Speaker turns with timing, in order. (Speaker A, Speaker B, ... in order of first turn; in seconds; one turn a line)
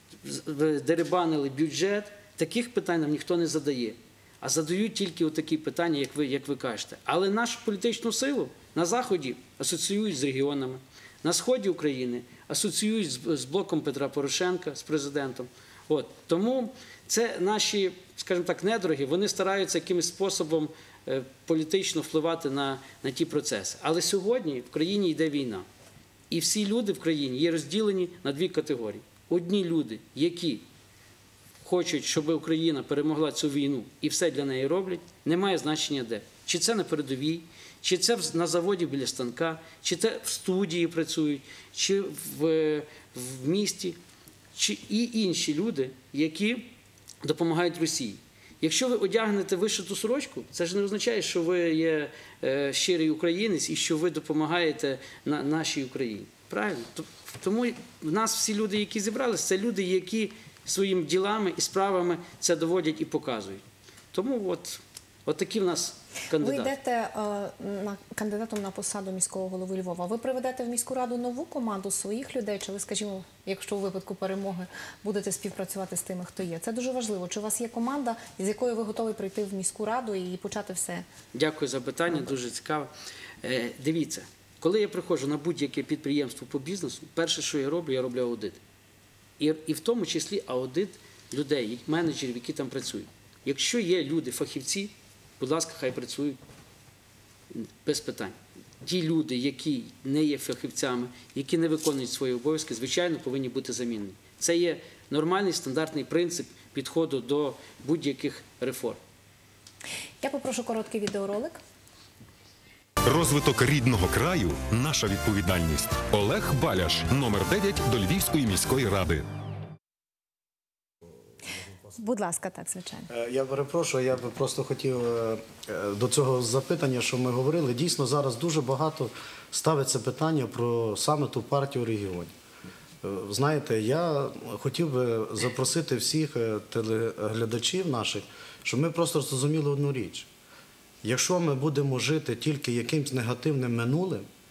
Speaker A: 0.2-25.7
Speaker A: 26.3-30.6
Speaker A: 31.6-44.0
Speaker A: 44.5-46.7
Speaker A: 47.2-66.7
Speaker B: 66.4-81.0
Speaker A: 81.3-82.9
Speaker A: 83.4-88.6
Speaker A: 89.4-96.4
Speaker A: 97.5-109.0
Speaker B: 110.2-111.6
Speaker C: 113.0-119.3
Speaker B: 122.0-123.1
Speaker D: 123.1-132.3
Speaker D: 133.0-140.3
Speaker D: 141.0-144.3